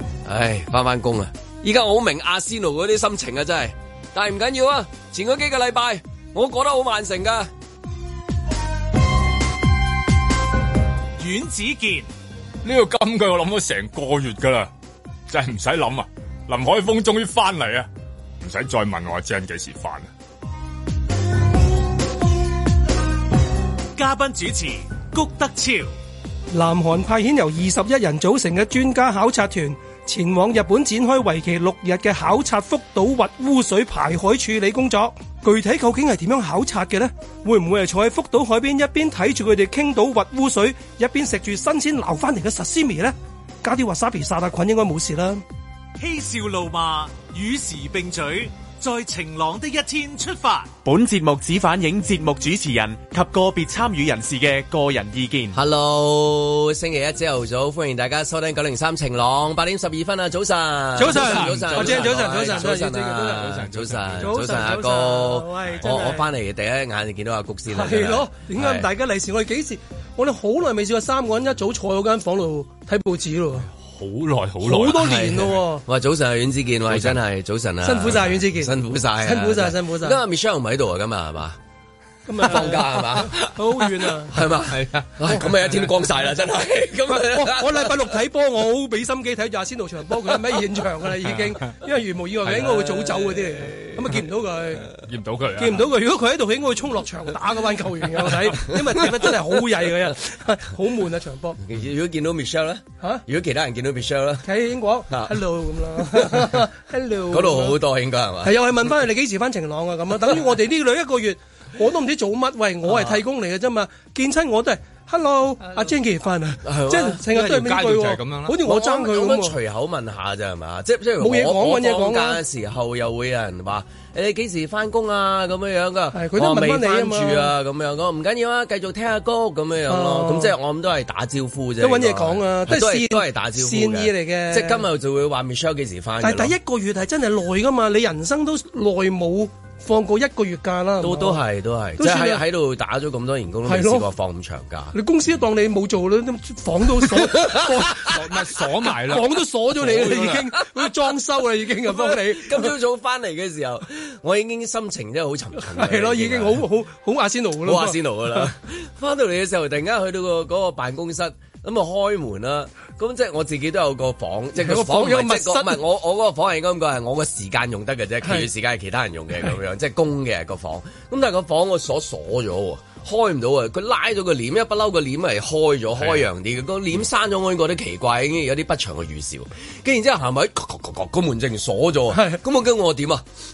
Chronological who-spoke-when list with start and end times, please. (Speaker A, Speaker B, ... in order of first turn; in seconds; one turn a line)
Speaker A: 0.2-7.5
Speaker B: 11.2-12.1
Speaker C: 12.6-14.7
Speaker C: 15.3-17.9
Speaker C: 18.4-20.1
Speaker B: 23.9-25.9
Speaker D: 26.5-45.4
Speaker B: 46.0-50.7
Speaker E: 50.8-55.5
Speaker A: 55.5-68.9
Speaker D: 61.0-63.5
Speaker C: 61.0-64.7
Speaker D: 64.2-66.3
Speaker D: 67.7-73.7
Speaker C: 73.7-75.1
Speaker D: 74.6-75.8
Speaker A: 74.9-81.6
Speaker C: 76.9-77.2
Speaker D: 77.8-80.2
Speaker D: 82.3-84.4
Speaker A: 82.4-88.1
Speaker C: 84.7-85.9
Speaker D: 87.1-94.9
Speaker C: 92.4-93.2
Speaker A: 92.6-94.0
Speaker C: 95.0-95.9
Speaker D: 95.6-101.6
Speaker A: 101.6-104.5
Speaker D: 104.4-107.8
Speaker A: 105.1-105.4
Speaker A: 107.3-108.5
Speaker D: 108.4-119.5
Speaker A: 112.8-113.2
Speaker A: 116.6-117.2
Speaker C: 117.2-118.6
Speaker A: 118.6-136.5
Speaker D: 121.2-122.4
Speaker D: 126.1-127.5
Speaker D: 129.9-130.5
Speaker D: 131.8-134.8
Speaker D: 136.2-141.4
Speaker A: 141.0-144.9
Speaker D: 142.0-142.4
Speaker D: 143.7-144.1
Speaker D: 144.9-147.9
Speaker A: 147.1-148.2
Speaker C: 147.8-150.5
Speaker D: 148.9-152.7
Speaker A: 151.8-156.6
Speaker D: 155.7-158.5
Speaker A: 157.6-183.2
Speaker D: 164.6-165.8
Speaker D: 182.1-182.4